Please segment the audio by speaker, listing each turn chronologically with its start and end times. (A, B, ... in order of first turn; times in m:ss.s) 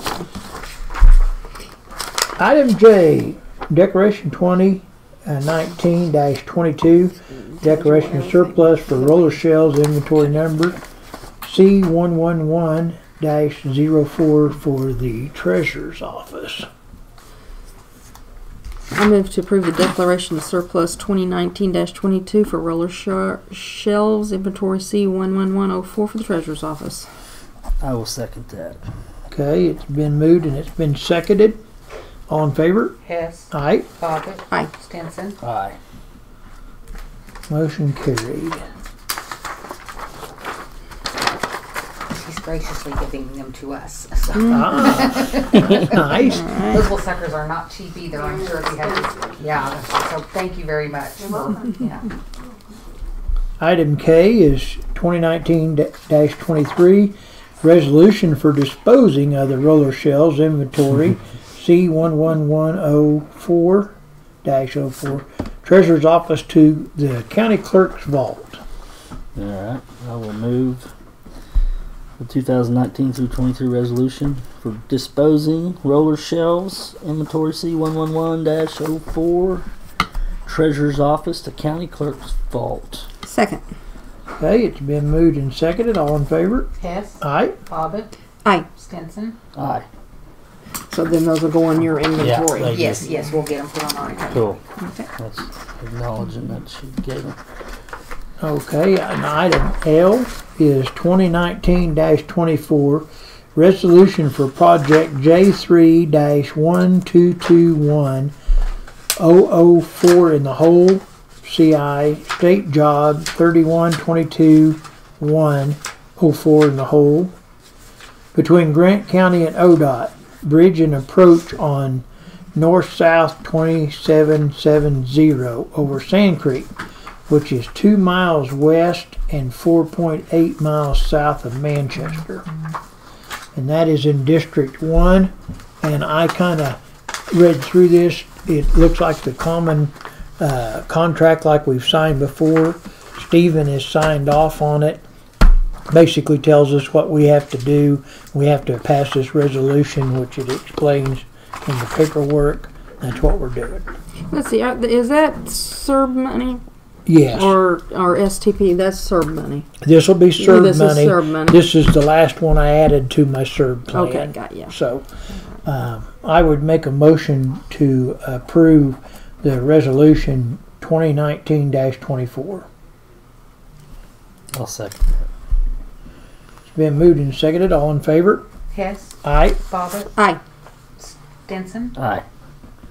0:02.4-0:10.8 A
0:07.3-0:09.4 B
0:11.4-0:16.6 A
0:18.9-0:27.1 B
0:27.8-0:28.8 C
0:29.3-0:31.6 A
0:32.3-0:33.0 A
0:33.0-0:35.4 D
0:33.5-0:33.9 A
0:35.4-0:35.8 C
0:37.5-0:38.6 A
0:42.1-0:46.0 D
0:44.4-0:44.9 B
0:44.4-0:46.5 A
0:46.1-0:46.9 B
0:46.6-0:52.1 D
0:48.2-0:49.3 B
0:51.3-0:51.7 B
0:53.6-1:08.6 A
1:09.3-1:10.9 C
1:12.2-1:19.7 C
1:20.4-1:23.1 C
1:23.2-1:23.6 B
1:24.4-1:26.7 A
1:26.8-1:28.1 D
1:27.2-1:27.6 A
1:28.8-1:29.4 D
1:29.5-1:29.8 C
1:30.9-1:33.2 B
1:32.2-1:33.0 C
1:32.6-1:34.6 D
1:34.3-1:34.6 C
1:34.8-1:35.1 B
1:35.2-1:37.4 C
1:38.4-1:48.3 A
1:49.2-1:57.3 A
1:58.3-2:06.7 A
2:07.3-2:12.5 A
2:13.5-2:25.0 A
2:25.9-2:33.9 A
2:34.3-2:36.6 B
2:37.0-2:37.5 A
2:37.3-2:39.7 B
2:39.8-2:45.1 A
2:40.4-2:41.6 B
2:43.9-2:44.7 B
2:45.6-2:52.6 A
2:54.5-2:55.2 C
2:56.6-2:58.4 A
2:58.7-3:00.1 D
2:59.2-2:59.6 A
3:01.0-3:01.9 D
3:02.0-3:02.2 C